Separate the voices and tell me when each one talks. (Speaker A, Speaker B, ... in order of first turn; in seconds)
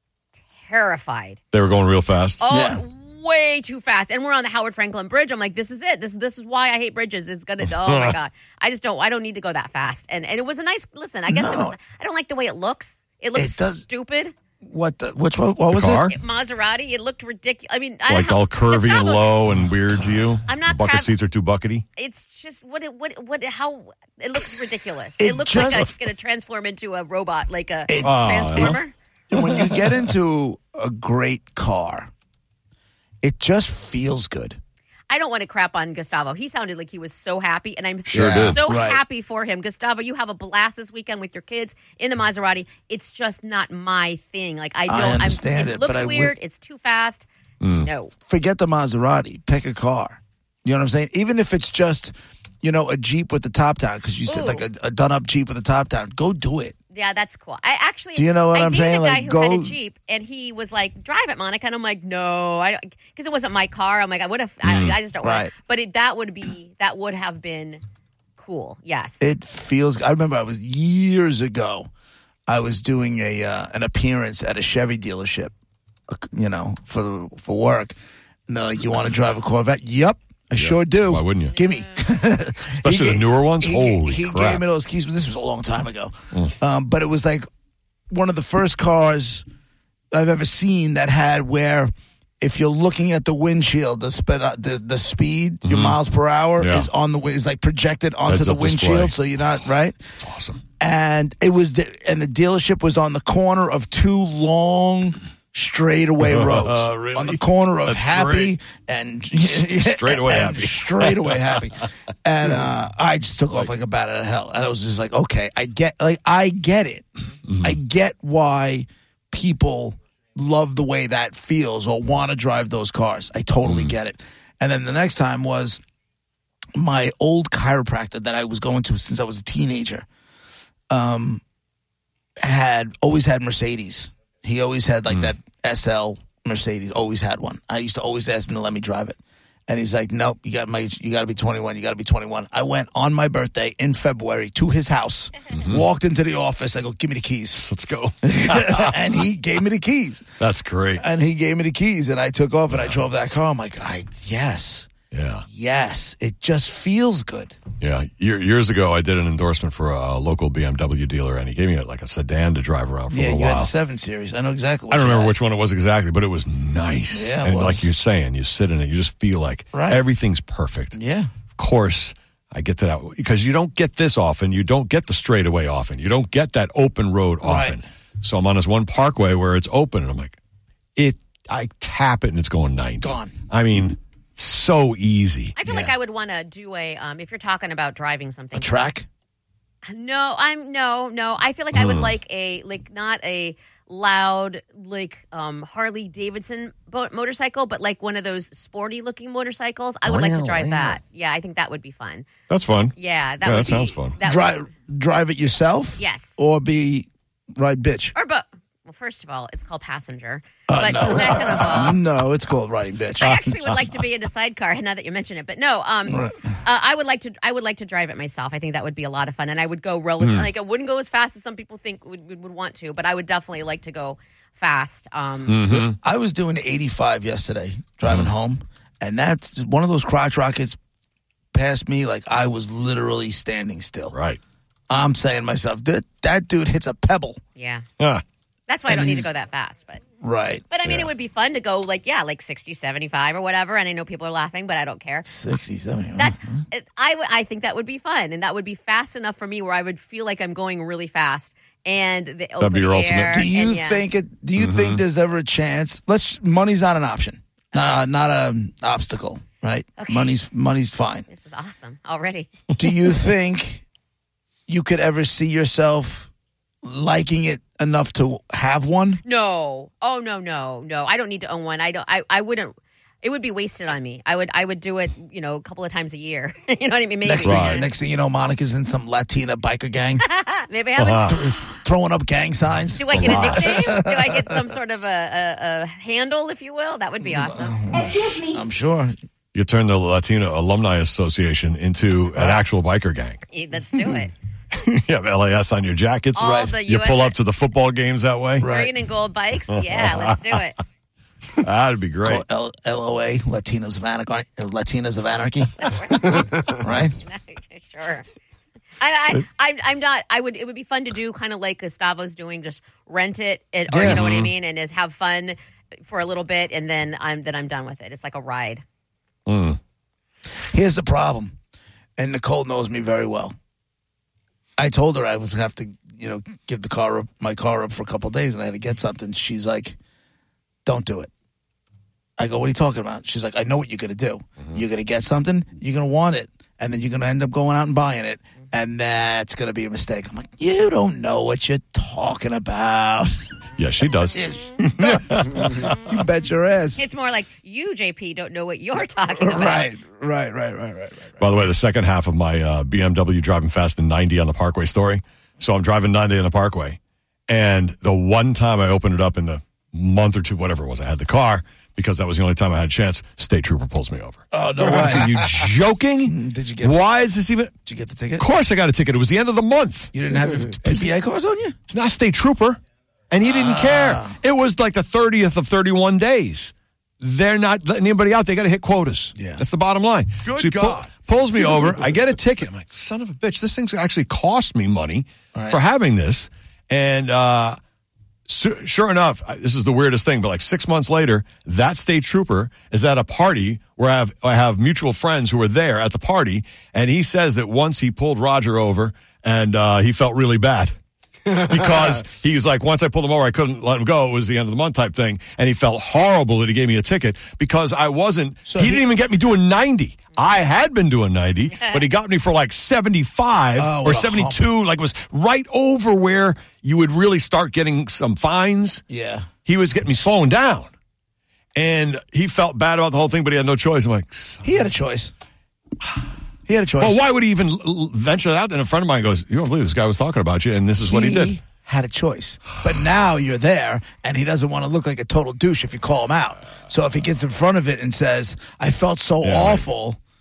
Speaker A: 0.6-1.4, 2.4-14.3, 16.1-19.4, 20.4-21.1, 22.0-28.9, 35.1-47.3, 47.8-48.1, 54.3-54.6, 56.9-67.8, 68.4-69.2, 81.4-82.1, 185.6-188.9, 189.8-202.3, 203.0-204.5, 206.0-206.3, 208.2-212.0, 213.2-225.7, 237.6-237.8, 238.7-240.0, 240.7-245.3, 246.2-254.1, 260.0-260.4, 261.3-262.5, 269.2-277.9, 280.2-281.4, 283.0-287.8, 293.5-294.3, 296.4-297.4, 298.7-300.8, 305.8-308.2, 309.0-318.8, 347.0-349.9, 411.7-412.1
Speaker B: 1.5-2.4, 7.7-8.2, 15.7-16.2, 18.1-21.9, 25.6-25.8, 28.0-28.8, 38.1-38.7, 47.6-47.9, 64.7-65.0, 80.5-81.6, 82.7-84.6, 95.7-96.0, 96.6-96.9, 98.3-99.2, 100.2-100.6, 106.2-108.5, 109.4-111.6, 117.5-117.8, 123.6-124.0, 145.5-145.8, 147.6-148.9, 150.4-151.0, 152.7-153.0, 155.1-155.4, 157.8-163.7, 164.9-171.0, 171.6-180.4, 181.0-185.5, 191.7-192.1, 200.1-201.0, 202.5-204.2, 220.2-220.5, 225.5-225.9, 228.1-228.3, 234.1-234.4, 240.8-241.1, 252.6-253.5, 254.6-255.0, 277.4-277.8, 281.0-281.4, 283.1-283.9, 289.5-293.4, 294.7-298.7, 299.7-300.6, 301.5-302.4, 314.0-314.5, 319.5-319.8, 343.8-346.0, 351.4-367.7, 368.4-370.1, 370.8-371.1, 371.9-372.8, 373.3-387.8, 388.5-401.0, 401.5-419.0, 419.6-420.9, 421.8-424.6, 427.0-431.6, 439.4-439.9
Speaker C: 2.5-2.8, 11.3-11.8, 13.3-13.9, 14.6-16.1, 25.2-25.9, 27.9-28.8, 29.3-32.1, 33.2-34.6, 38.1-39.0, 44.9-46.3, 48.2-56.8, 58.2-59.8, 65.2-65.5, 69.2-71.9, 72.5-75.5, 76.1-78.0, 78.5-87.5, 88.1-89.5, 90.1-100.0, 100.8-117.1, 117.6-125.8, 126.8-130.1, 130.9-131.4, 132.4-147.7, 148.2-150.3, 151.0-154.9, 155.5-157.6, 163.1-165.3, 167.1-167.9, 169.7-170.0, 170.9-171.3, 177.4-177.8, 183.0-183.3, 185.7-185.9, 188.5-189.1, 204.2-208.1, 210.7-213.3, 216.1-216.3, 225.7-230.8, 231.5-234.2, 234.9-237.4, 238.9-239.3, 240.2-240.6, 245.3-246.7, 253.3-261.3, 262.8-263.8, 264.7-266.3, 266.8-269.2, 277.2-280.2, 281.2-284.6, 287.2-289.1, 292.4-292.6, 296.4-296.8, 298.6-298.9, 302.2-305.9, 306.7-307.1, 313.9-314.2, 320.7-321.6, 322.2-323.6, 324.8-330.0, 330.9-331.3, 332.4-343.3, 344.3-347.1, 349.4-351.4, 364.5-365.4, 366.3-367.0, 367.9-368.5, 370.1-371.8, 373.4-374.4, 379.4-379.6, 380.5-381.1, 385.5-385.8, 408.7-409.1, 413.8-414.6, 419.1-419.5, 424.6-425.3, 426.7-427.2, 431.1-440.2